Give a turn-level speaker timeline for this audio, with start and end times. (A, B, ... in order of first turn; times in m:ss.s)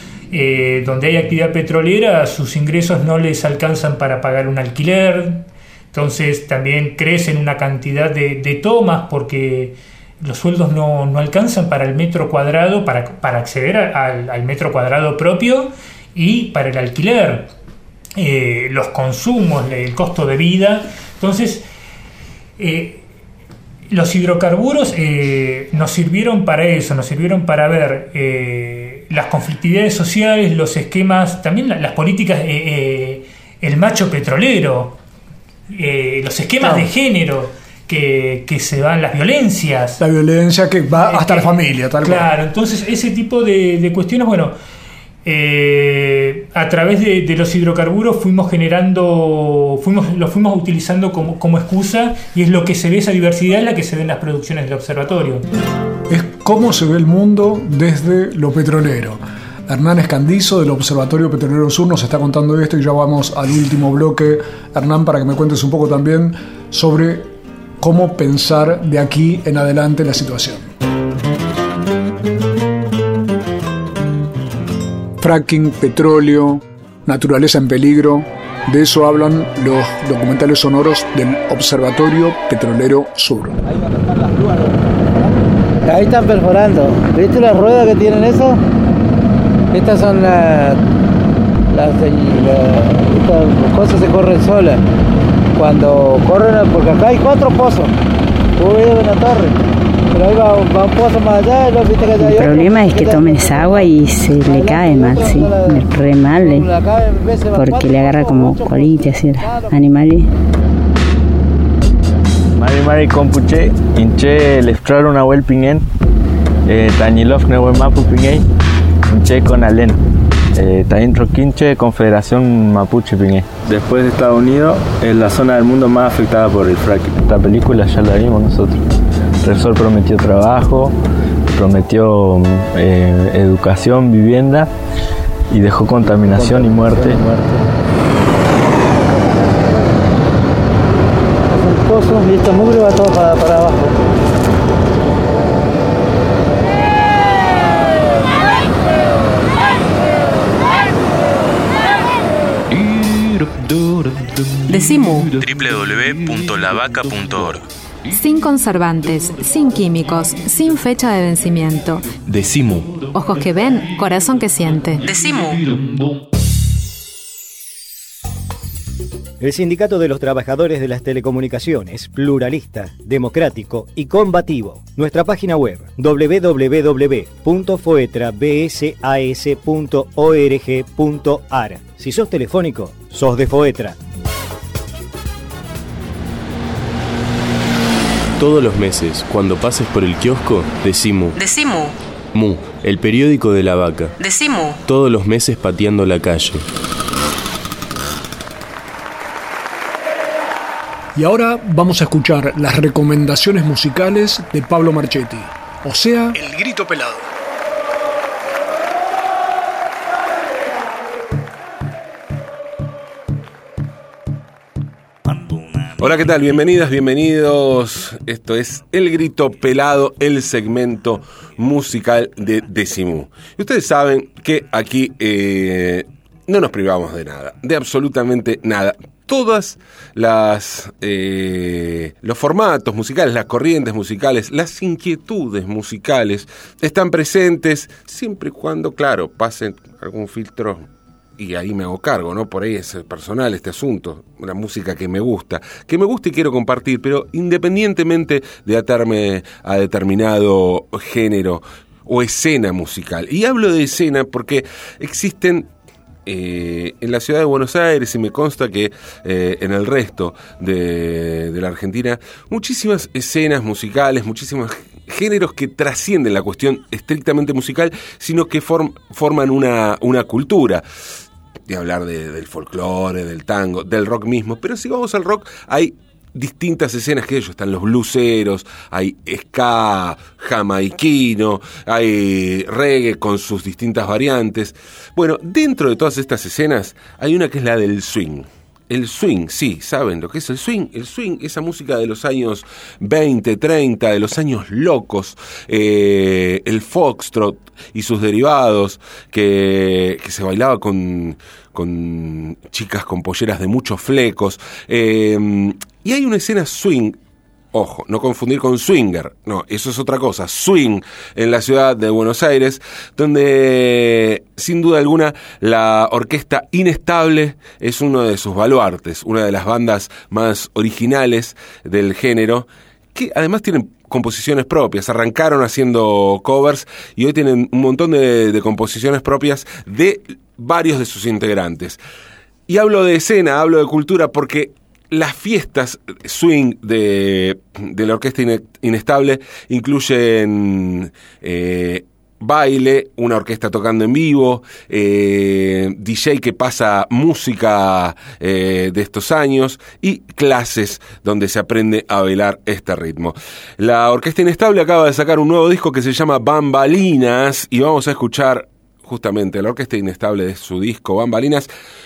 0:00.3-0:17.5 A
0:18.2-0:21.7 A
0:22.6-0:23.0 A
0:23.9-0:35.0 A
0:35.7-0:40.0 A
0:36.6-0:36.9 B
0:40.0-0:42.3 B
0:41.0-0:44.6 A
0:45.2-0:55.4 A
0:56.1-1:10.7 B
1:15.2-1:23.6 B
1:24.0-1:24.6 C
1:25.8-1:28.6 C
1:29.7-1:30.8 C
1:31.7-1:34.8 C
1:35.6-1:37.9 C
1:38.6-1:39.6 C
1:40.1-1:49.8 C
1:42.1-1:46.7 D
1:47.6-1:50.3 D
1:52.6-1:55.8 E
1:56.7-1:58.4 E
1:59.1-2:00.0 E
2:00.6-2:08.8 E
2:09.4-2:10.9 E
2:11.5-2:14.7 E
2:15.5-2:17.4 E
2:16.2-2:17.6 C
2:19.4-2:19.9 C
2:21.5-2:24.0 C
2:34.7-2:35.3 F
2:35.3-2:37.6 G
2:38.1-2:42.1 F
2:42.2-2:43.0 G
2:43.1-2:45.6 F
2:49.4-3:04.0 H
3:08.4-3:11.4 G
3:11.4-3:12.0 F
3:12.3-3:14.1 G
3:14.2-3:14.8 F
3:14.9-3:16.7 G
3:21.2-3:27.3 B
3:36.0-4:00.8 I
4:01.4-4:15.7 I
4:16.3-4:30.8 I
4:31.7-5:07.2 I
5:07.7-5:32.0 I
5:32.7-6:01.7 I